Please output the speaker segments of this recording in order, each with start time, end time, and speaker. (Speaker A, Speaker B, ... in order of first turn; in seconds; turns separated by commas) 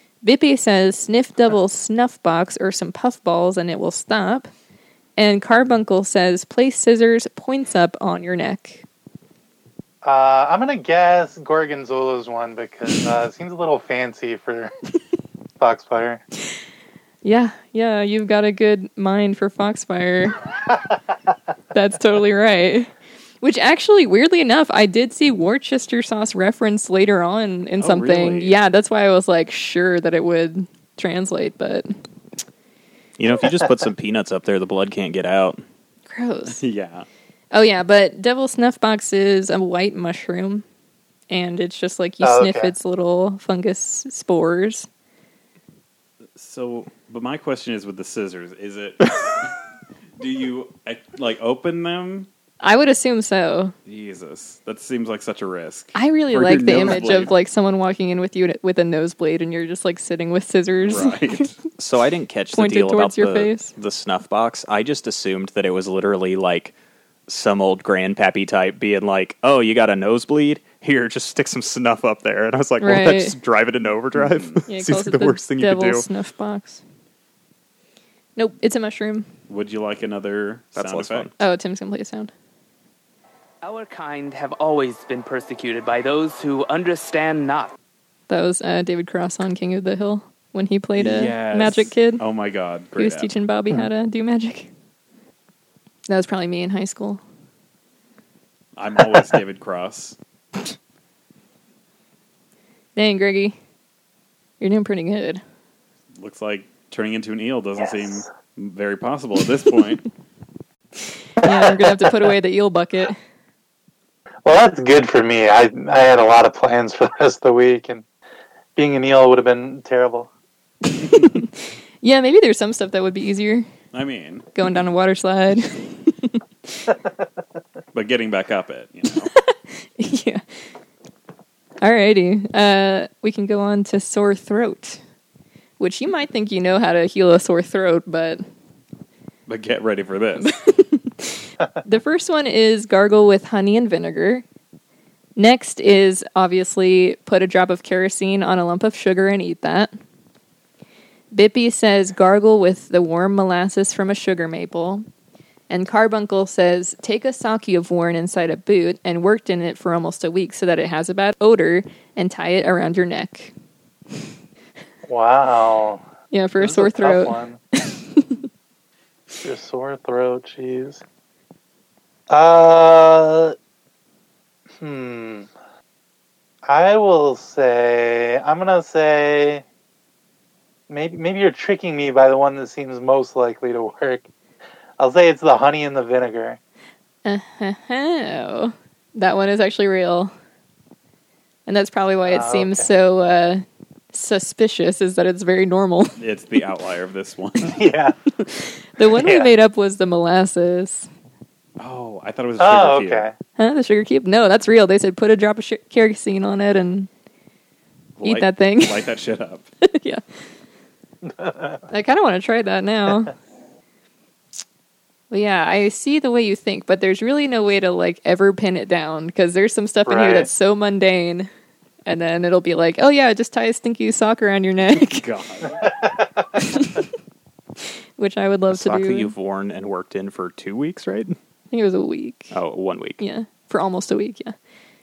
Speaker A: 0.2-4.5, Speaker A: 5.2-8.8, Speaker B: 10.0-14.7, Speaker B: 15.6-16.2, Speaker A: 17.2-20.4, Speaker A: 21.7-22.9, Speaker A: 23.4-31.9, Speaker C: 27.8-28.6, Speaker D: 33.2-35.6, Speaker A: 36.1-36.6, Speaker C: 36.5-37.0, Speaker A: 37.5-40.6, Speaker A: 41.3-44.9, Speaker B: 42.2-42.7, Speaker C: 46.4-49.5, Speaker C: 50.2-52.3, Speaker A: 52.6-53.7, Speaker C: 53.9-57.3, Speaker A: 55.9-61.5, Speaker C: 60.8-61.5, Speaker D: 61.8-66.7, Speaker A: 62.5-63.7, Speaker D: 67.3-76.0, Speaker A: 72.8-73.4, Speaker C: 74.1-74.6, Speaker A: 74.7-76.8, Speaker A: 78.3-79.3, Speaker C: 79.5-81.3, Speaker D: 80.7-81.3, Speaker A: 81.4-82.3, Speaker E: 83.6-87.7, Speaker A: 88.3-92.2, Speaker C: 91.0-93.3, Speaker A: 93.0-94.7, Speaker A: 96.1-97.2, Speaker C: 98.8-100.2, Speaker A: 103.0-103.5, Speaker A: 104.6-105.4, Speaker C: 106.2-110.0, Speaker B: 107.8-108.2, Speaker A: 111.4-113.2, Speaker B: 111.4-112.1, Speaker B: 114.4-118.0, Speaker B: 118.8-120.3, Speaker A: 120.9-123.7, Speaker C: 123.9-124.5, Speaker A: 124.5-126.4, Speaker C: 127.9-129.3, Speaker A: 129.3-130.4, Speaker A: 131.8-135.0, Speaker A: 135.8-138.4, Speaker C: 139.5-140.5, Speaker A: 140.4-144.4, Speaker A: 145.4-149.9, Speaker A: 151.3-155.0, Speaker A: 155.7-163.5, Speaker B: 165.1-166.0, Speaker A: 166.3-167.4, Speaker B: 166.6-167.6, Speaker B: 169.4-171.0, Speaker B: 172.3-173.5, Speaker B: 174.8-175.5, Speaker B: 176.7-179.6, Speaker B: 180.9-184.2, Speaker B: 185.0-186.6, Speaker A: 187.2-190.3, Speaker A: 191.7-196.2, Speaker B: 192.2-192.9, Speaker C: 196.2-197.8, Speaker B: 197.6-198.3, Speaker A: 199.0-201.1, Speaker B: 199.1-199.5, Speaker C: 201.8-203.3, Speaker B: 202.6-203.3, Speaker A: 203.6-207.1, Speaker C: 208.2-209.7, Speaker A: 208.2-209.0, Speaker A: 209.8-210.2, Speaker B: 211.3-211.8, Speaker A: 211.9-213.3, Speaker A: 215.3-221.5, Speaker B: 220.1-220.5, Speaker A: 222.1-225.2, Speaker C: 225.0-225.8, Speaker B: 225.7-226.5, Speaker A: 226.6-227.1, Speaker A: 227.8-229.3, Speaker D: 228.7-231.4, Speaker A: 231.7-232.6, Speaker D: 232.5-233.2, Speaker A: 233.2-234.5